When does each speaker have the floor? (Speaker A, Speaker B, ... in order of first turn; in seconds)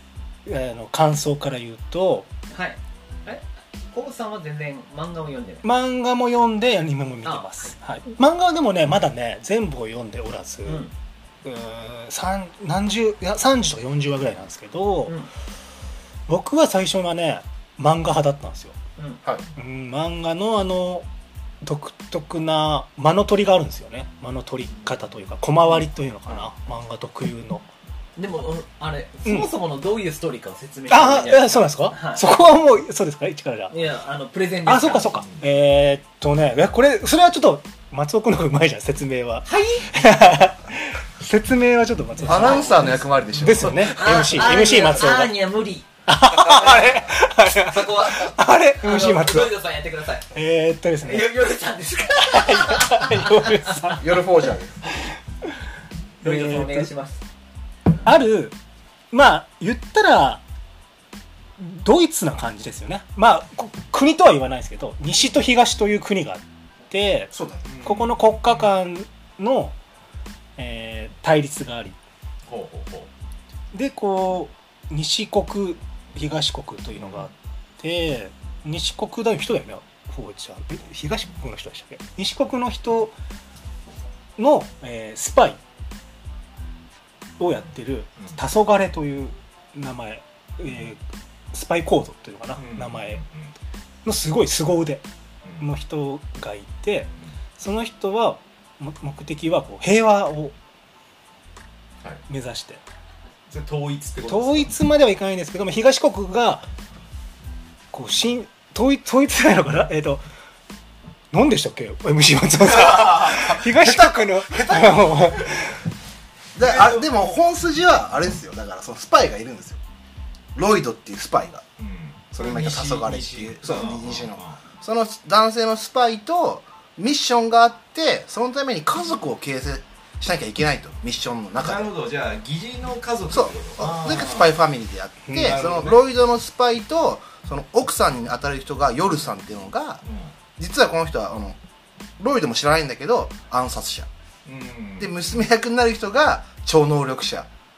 Speaker A: 0.4-2.3, 5.6-10.8, 11.4-15.2, 16.3-18.8, 19.6-21.1, 21.6-27.6, 30.9-33.7, 34.6-45.3, 46.1-49.5, 50.3-51.3, 52.2-54.2, 56.2-56.9, 58.0-58.5, 59.1-60.4, 61.6-67.3, 67.8-69.7, 70.6-72.0, 73.7-83.1, 84.4-85.6, 87.4-91.0, 91.5-93.2, 94.0-95.0, 95.6-100.5, 102.3-102.8, 104.3-106.7, 107.9-110.2, 111.3-115.8, 135.3-135.6
Speaker B: 2.5-5.6, 7.2-7.7, 10.7-10.9, 28.2-32.2, 33.7-35.2, 39.5-39.9, 42.2-42.6, 43.8-45.9, 47.6-50.2, 51.0-54.0, 56.2-57.2
Speaker C: 42.2-45.0, 46.5-46.9, 54.0-54.9, 67.3-67.6, 116.5-119.8, 120.5-121.6, 122.3-131.9, 133.3-140.0, 140.6-141.6, 142.2-144.1, 145.0-147.5
Speaker D: 42.3-43.7, 67.6-68.7, 72.5-73.1, 77.0-77.3, 87.5-88.4, 92.5-93.5, 95.4-95.7, 103.5-104.7, 112.8-115.6, 116.6-117.1, 121.8-124.6, 131.6-134.6, 135.3-136.1, 140.0-140.3, 144.4-145.5